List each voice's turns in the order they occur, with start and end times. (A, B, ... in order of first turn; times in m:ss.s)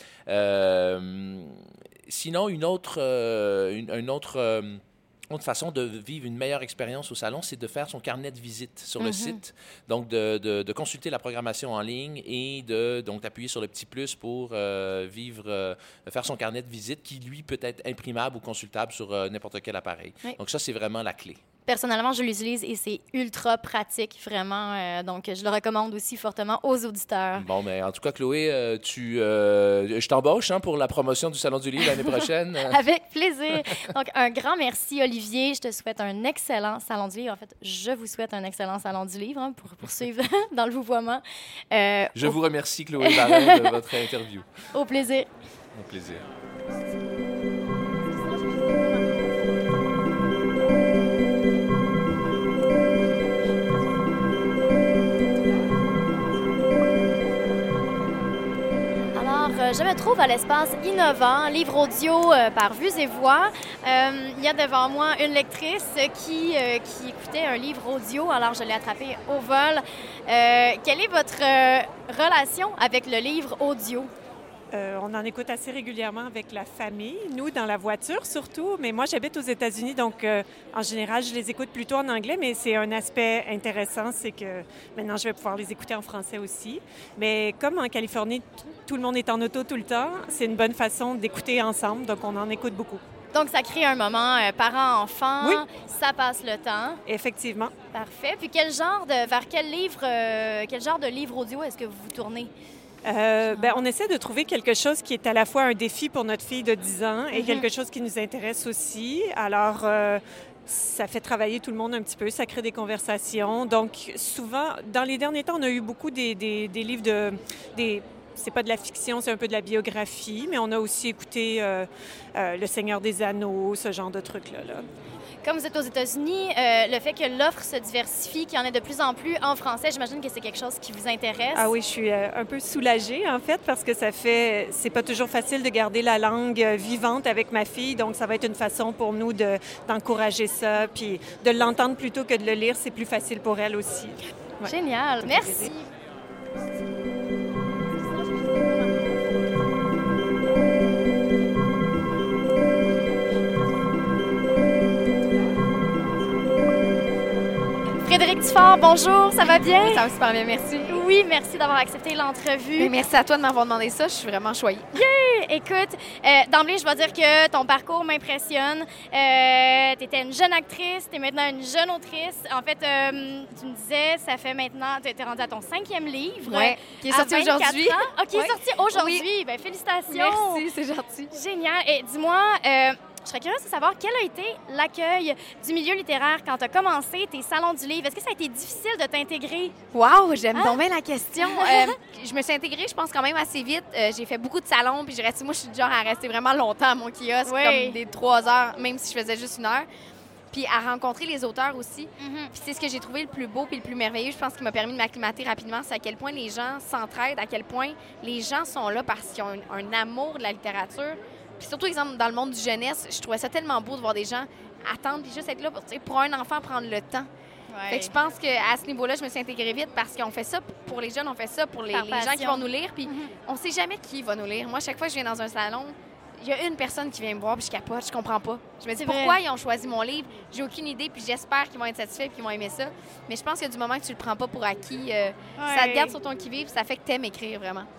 0:00.3-0:21.4 A
0:09.0-0:09.4 B
0:21.7-0:27.5 B
0:27.4-0:32.8 A
0:32.7-0:42.4 B
0:42.2-0:44.5 A
0:43.0-0:43.7 B
0:44.7-0:45.3 B
0:45.7-0:46.2 A
0:59.2-1:14.1 B
1:14.7-1:33.0 C
1:33.3-1:37.0 B
1:37.1-1:37.7 C
1:37.9-1:42.5 B
1:43.1-2:04.8 C
1:43.5-1:43.8 B
1:47.3-1:47.7 B
2:05.4-2:11.7 B
2:11.6-2:25.7 C
2:24.6-2:25.9 B
2:38.0-2:40.0 B
2:39.4-2:41.0 D
2:40.9-2:42.9 B
2:42.8-2:44.9 D
2:45.0-3:00.6 B
2:56.4-2:59.2 D
3:00.1-3:01.3 D
3:01.3-3:09.8 B
3:09.9-3:19.9 D
3:11.4-3:12.0 B
3:17.4-3:18.0 B
3:20.5-3:37.3 D
3:22.2-3:22.5 B
3:37.7-3:38.1 B
3:37.9-3:57.9 D
3:41.9-3:43.3 B
3:49.0-3:49.4 B
3:55.6-3:56.2 B